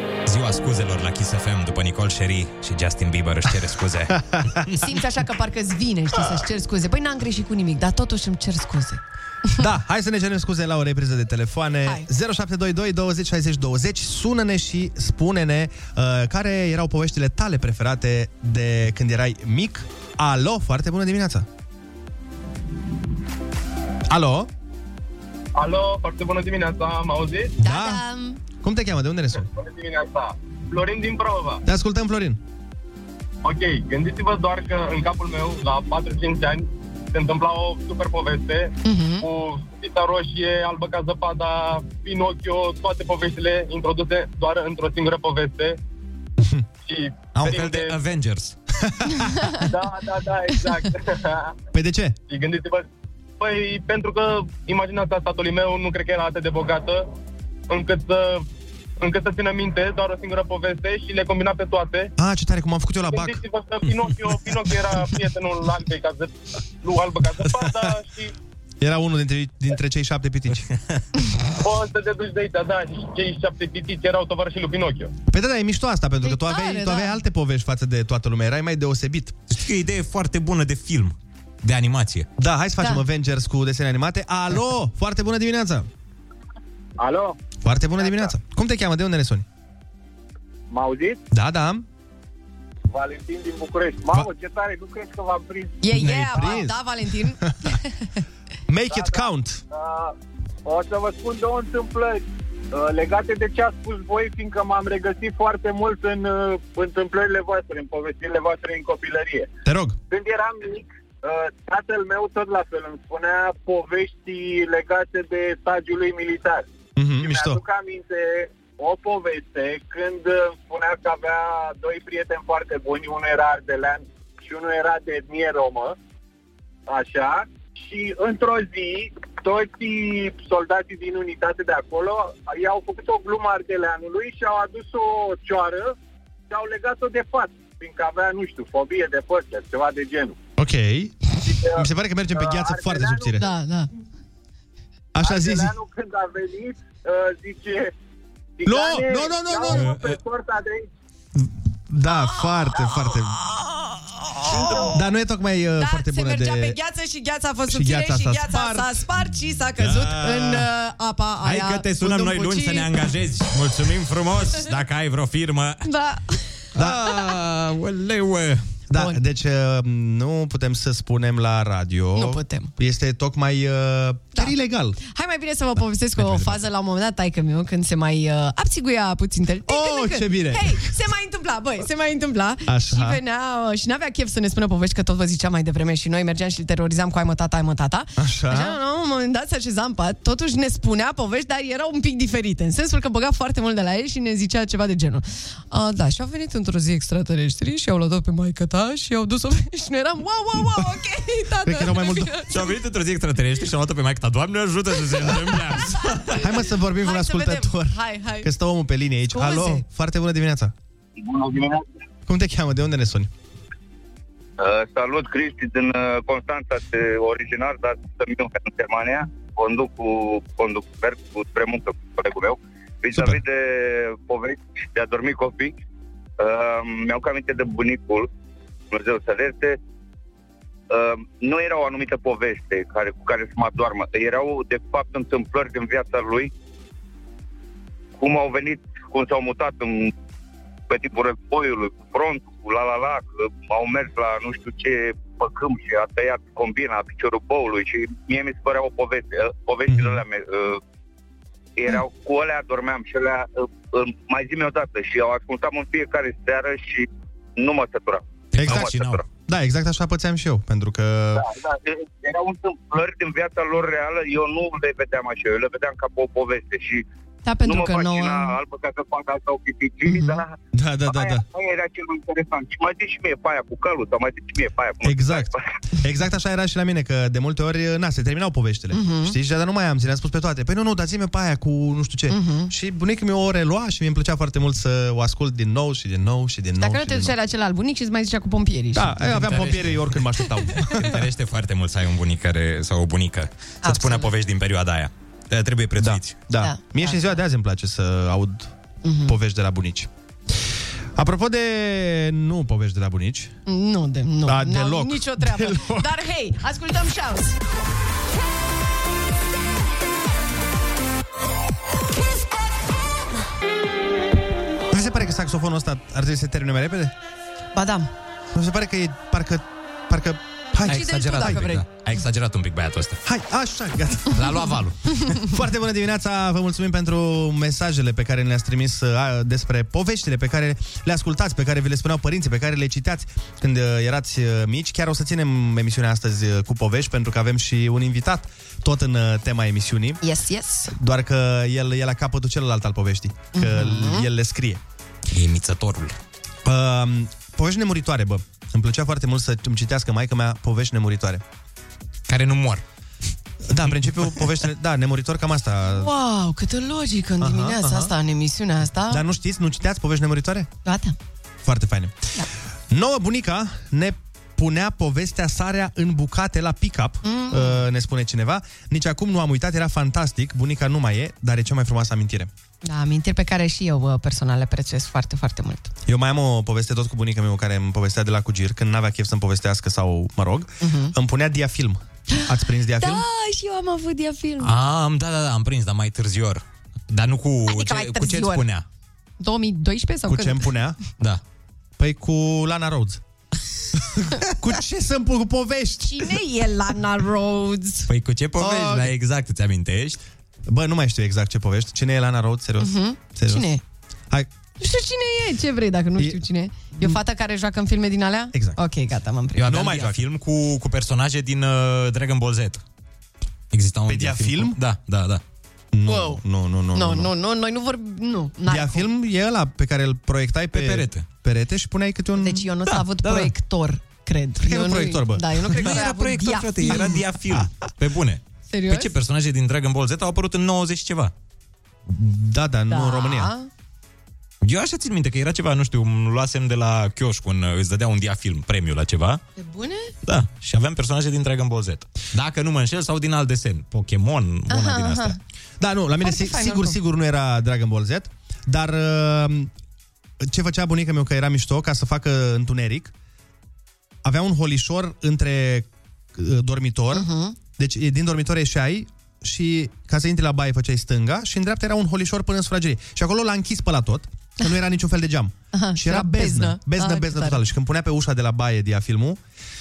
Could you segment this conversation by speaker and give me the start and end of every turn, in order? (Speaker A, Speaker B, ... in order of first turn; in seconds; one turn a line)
Speaker A: 0.2-4.9
Speaker B: 4.8-9.0
Speaker C: 9.6-21.5
Speaker C: 24.1-24.5
Speaker D: 25.6-27.5
Speaker C: 27.6-28.0
Speaker B: 27.6-28.4
Speaker C: 28.6-29.4
Speaker D: 29.3-31.6
Speaker C: 31.6-32.4
Speaker D: 33.4-45.8
Speaker B: 38.8-39.2
Speaker D: 46.8-48.0
Speaker A: 47.4-48.5
Speaker C: 48.8-49.3
Speaker D: 49.6-51.5
Speaker C: 51.7-52.2
Speaker D: 52.3-52.9
Speaker D: 53.4-57.1
Speaker D: 57.7-58.5
Speaker D: 59.0-62.1
Speaker C: 62.2-63.4
Speaker D: 63.1-68.3
Speaker C: 68.8-70.7
Speaker D: 71.6-75.1
Speaker C: 75.3-79.3
Speaker B: 76.2-77.2
Speaker A: 79.5-82.3
Speaker C: 82.4-85.9
Speaker C: 87.6-89.4
Speaker E: 90.8-91.1
Speaker C: 91.3-91.8
Speaker E: 93.0-95.5
Speaker B: 95.8-98.2
Speaker C: 95.9-96.8
Speaker C: 98.7-99.6
Speaker E: 100.7-102.2
Speaker E: 102.9-106.1
Speaker E: 106.8-109.3
Speaker C: 109.6-110.0
Speaker E: 110.4-110.7
Speaker E: 111.8-116.6
Speaker C: 117.0-117.6
Speaker E: 117.3-118.0
Speaker E: 118.9-120.1
Speaker E: 120.8-121.2
Speaker E: 121.9-124.0
Speaker E: 124.5-125.7
Speaker E: 127.0-135.6
Speaker E: 136.6-140.3
Speaker C: 140.6-143.5
Speaker B: 143.4-143.9
Speaker C: 145.1-145.7
Speaker E: 145.8-146.7
Speaker C: 148.6-150.1
Speaker E: 148.7-149.1
Speaker A: 149.7-150.0
Speaker C: 151.3-153.4
Speaker B: 152.1-154.9
Speaker C: 154.5-156.8
Speaker B: 155.8-162.9
Speaker C: 157.7-159.1
Speaker A: 159.8-160.6
Speaker A: 161.4-165.8
Speaker B: 165.8-166.6
Speaker A: 166.7-168.7
Speaker C: 166.8-167.1
Speaker C: 168.9-175.0
Speaker B: 168.9-169.2
Speaker B: 172.1-172.7
Speaker B: 174.3-202.8
Speaker A: 176.2-176.6
Speaker C: 179.7-180.8
Speaker C: 182.7-183.2
Speaker C: 188.2-188.8
Speaker C: 201.6-202.3
Speaker A: 202.5-206.5
Speaker B: 205.3-208.5
Speaker C: 206.3-210.7
Speaker B: 209.3-209.8
Speaker F: 211.2-211.8
Speaker C: 212.3-213.3
Speaker F: 214.6-225.7
Speaker F: 226.4-228.3
Speaker F: 228.9-229.8
Speaker F: 230.9-236.5
Speaker F: 238.2-240.1
Speaker F: 240.9-250.8
Speaker C: 249.9-250.2
Speaker F: 251.8-259.2
Speaker A: 258.5-259.2
Speaker C: 258.6-258.9
Speaker C: 259.5-261.4
Speaker F: 261.3-267.0
Speaker B: 267.4-268.5
Speaker F: 267.6-275.6
Speaker B: 270.1-270.4
Speaker C: 270.7-271.4
Speaker C: 275.0-287.3
Speaker B: 278.9-279.3
Speaker B: 282.3-282.7
Speaker B: 286.8-289.8
Speaker C: 288.9-291.2
Speaker A: 289.3-290.2
Speaker A: 290.9-296.3
Speaker B: 293.8-294.3
Speaker C: 296.0-298.7
Speaker B: 296.6-297.3
Speaker B: 299.0-299.3
Speaker C: 299.2-300.1
Speaker C: 301.1-303.5
Speaker B: 303.7-307.6
Speaker C: 304.4-306.1
Speaker C: 314.9-317.1
Speaker B: 317.7-318.1
Speaker C: 318.5-321.7
Speaker B: 320.8-321.8
Speaker A: 320.9-323.2
Speaker C: 323.2-324.6
Speaker A: 324.3-325.4
Speaker C: 325.4-340.2
Speaker B: 340.2-340.9
Speaker C: 340.9-344.8
Speaker B: 343.5-344.3
Speaker A: 345.3-346.1
Speaker C: 346.6-351.4
Speaker A: 352.3-352.8
Speaker C: 353.7-356.1
Speaker B: 355.9-359.2
Speaker C: 357.4-358.1
Speaker C: 359.1-360.7
Speaker B: 360.8-361.1
Speaker C: 361.6-362.2
Speaker C: 362.9-372.5
Speaker B: 367.2-367.8
Speaker B: 372.8-375.9
Speaker C: 376.1-383.2
Speaker B: 380.8-381.1
Speaker B: 382.3-384.7
Speaker A: 384.6-388.9
Speaker B: 387.7-388.6
Speaker B: 389.4-390.7
Speaker C: 390.3-391.0
Speaker C: 392.0-393.2
Speaker C: 394.1-396.3
Speaker B: 396.0-398.1
Speaker A: 398.1-400.2
Speaker C: 398.6-399.1
Speaker C: 400.7-403.7
Speaker B: 402.8-403.8
Speaker B: 404.8-409.6
Speaker C: 406.2-406.4
Speaker C: 408.5-408.8
Speaker A: 409.6-412.8
Speaker C: 409.6-410.2
Speaker A: 413.7-415.4
Speaker C: 414.1-414.8
Speaker C: 415.9-417.3
Speaker B: 416.1-416.4
Speaker B: 416.9-419.1
Speaker C: 418.7-422.7
Speaker A: 420.7-421.3
Speaker B: 422.4-427.1
Speaker A: 422.9-423.5
Speaker C: 424.6-426.0
Speaker A: 425.7-431.3
Speaker B: 428.7-429.1
Speaker C: 432.1-433.5
Speaker B: 432.9-433.7
Speaker A: 434.6-439.4
Speaker B: 439.6-440.1
Speaker A: 440.2-445.4
Speaker B: 444.7-445.4
Speaker C: 445.8-449.7
Speaker B: 446.2-447.0
Speaker C: 450.4-453.1
Speaker C: 454.2-469.4
Speaker B: 457.1-457.6
Speaker B: 465.7-467.6